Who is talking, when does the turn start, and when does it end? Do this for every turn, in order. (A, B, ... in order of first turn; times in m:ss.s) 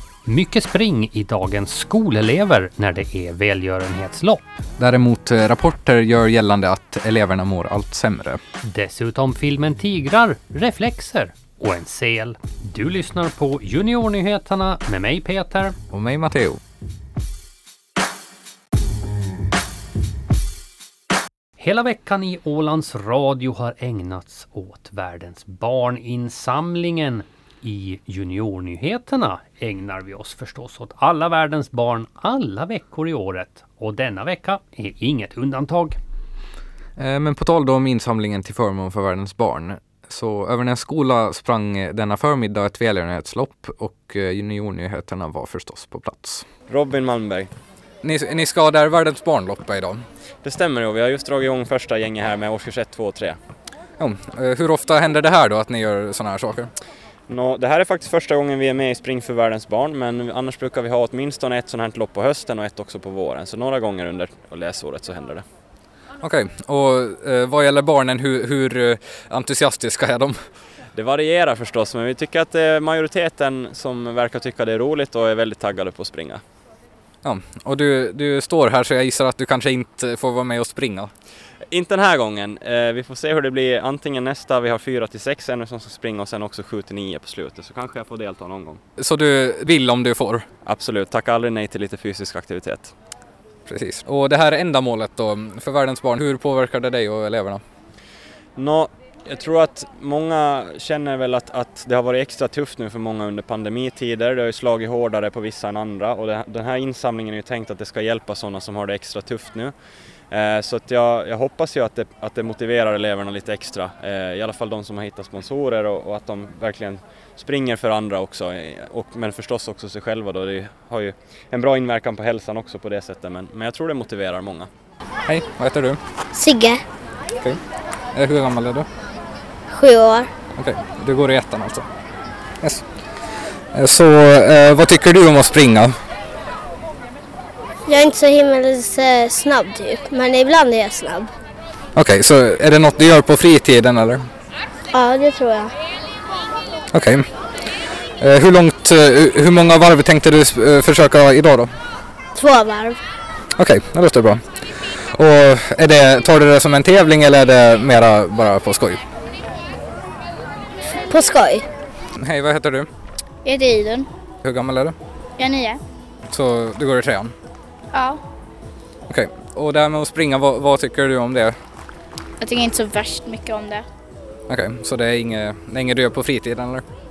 0:00.2-0:04.6 A
0:04.8-0:08.4 B
0:08.6-0:15.8 A
0:15.9-0:16.6 B
0:21.6-0:36.0 A
0:37.0-0:46.5 B
0:46.7-0:47.5 C
0:48.0-0:50.0 B
0:50.4-0:53.4 C
0:54.0-0:56.7 B
0:57.3-1:05.4 C
1:06.2-1:10.4 B
1:10.9-1:16.4 C
1:17.2-1:21.1 B
1:21.7-1:28.8 C
1:29.0-1:30.4 B
1:30.6-1:32.9 C
1:33.7-1:37.6 B
1:38.6-1:49.7 C
1:50.3-2:04.7 C
2:05.3-2:06.0 B
2:06.3-2:06.8 D
2:08.2-2:08.9 B
2:09.7-2:10.3 D
2:10.6-2:11.8 B
2:13.7-2:15.9 B
2:17.9-2:21.3 D
2:21.9-2:24.2 B
2:24.9-2:25.7 D
2:26.9-2:27.2 B
2:28.2-2:31.7 B
2:32.4-2:33.0 D
2:33.6-2:34.4 B
2:35.1-2:39.0 B
2:41.1-2:41.6 D
2:42.2-2:42.9 B
2:43.4-2:44.1 E
2:44.4-2:44.9 B
2:45.4-2:45.8 E
2:46.3-2:47.3 B
2:47.9-2:48.2 E
2:49.1-2:51.5 B
2:52.4-2:53.8 E
2:54.5-2:56.8 B